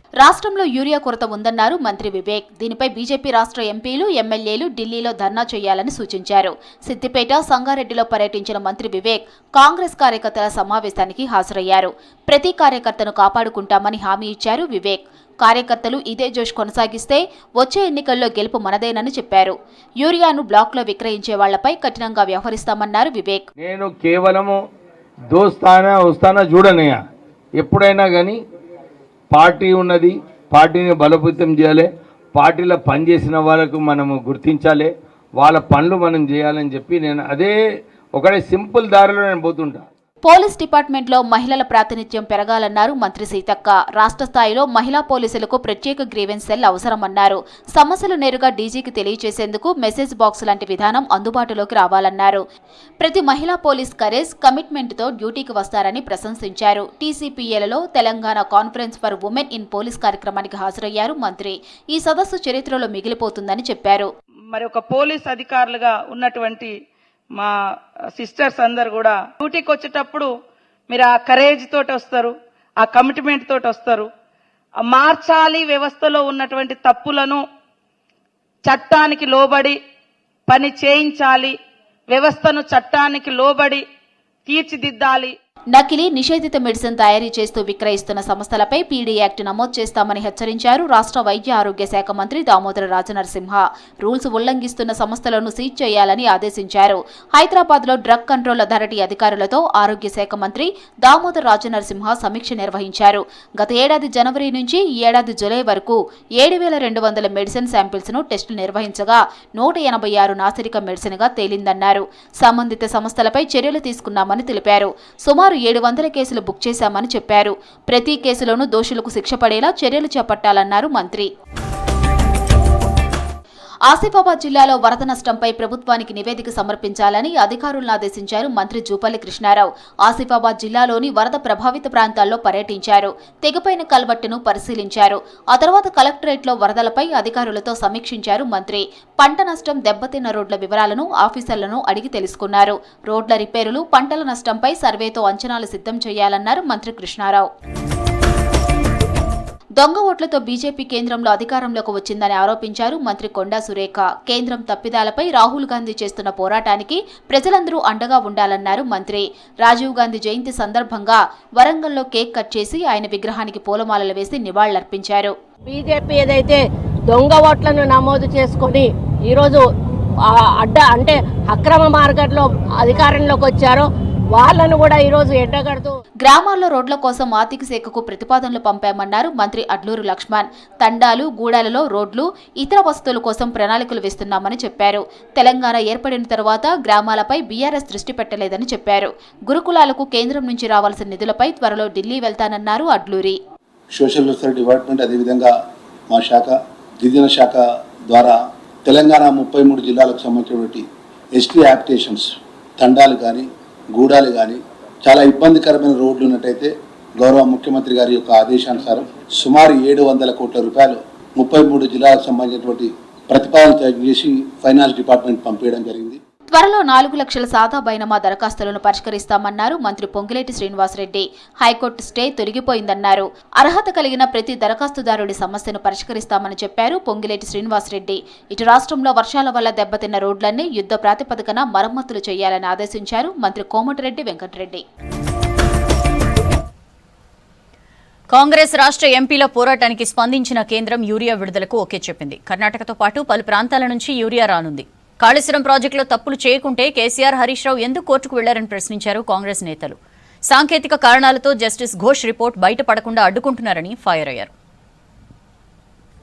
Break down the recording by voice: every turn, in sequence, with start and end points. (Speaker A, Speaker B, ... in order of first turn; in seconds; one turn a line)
Speaker A: 0.2-23.5
Speaker B: 23.6-24.6
Speaker B: 25.3-27.0
Speaker B: 27.6-28.4
Speaker B: 29.3-37.5
Speaker B: 38.2-39.8
Speaker A: 40.2-52.4
Speaker A: 53.0-64.1
Speaker C: 64.5-66.7
Speaker C: 68.2-70.3
Speaker C: 70.9-74.1
Speaker C: 74.8-77.4
Speaker C: 78.6-79.8
Speaker C: 80.5-81.6
Speaker C: 82.1-83.8
Speaker C: 84.5-85.3
Speaker A: 85.7-121.3
Speaker A: 123.9-147.5
Speaker A: 149.8-165.3
Speaker D: 165.7-169.7
Speaker D: 170.2-176.0
Speaker A: 176.2-193.4
Speaker E: 193.9-195.5
Speaker E: 196.1-200.8
Speaker E: 201.4-216.2
Speaker A: 216.5-234.8
Speaker F: 238.3-250.0
Speaker F: 250.5-254.5